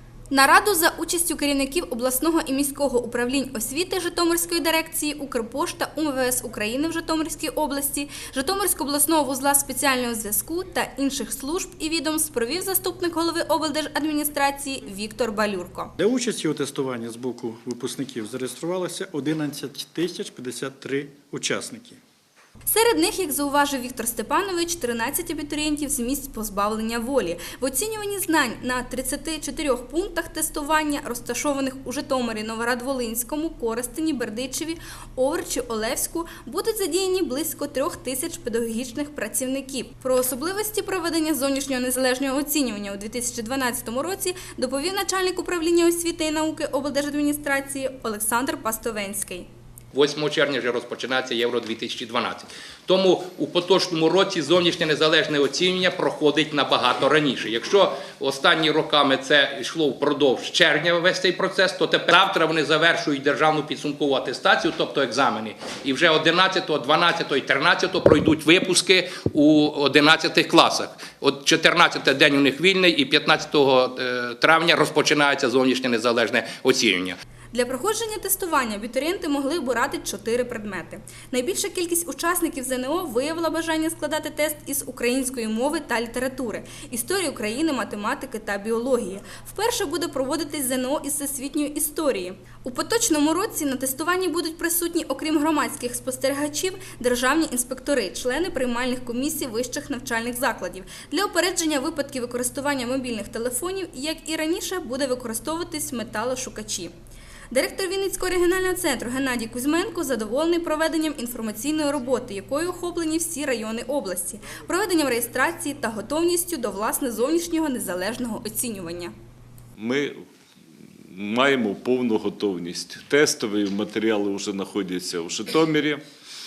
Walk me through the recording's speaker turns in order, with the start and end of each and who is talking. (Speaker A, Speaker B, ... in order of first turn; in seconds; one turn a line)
Speaker A: 0.3-15.9
Speaker B: 16.0-22.0
Speaker A: 22.6-49.5
Speaker C: 49.9-77.2
Speaker A: 77.5-106.9
Speaker A: 107.5-119.1
Speaker D: 119.8-120.2
Speaker D: 121.1-126.0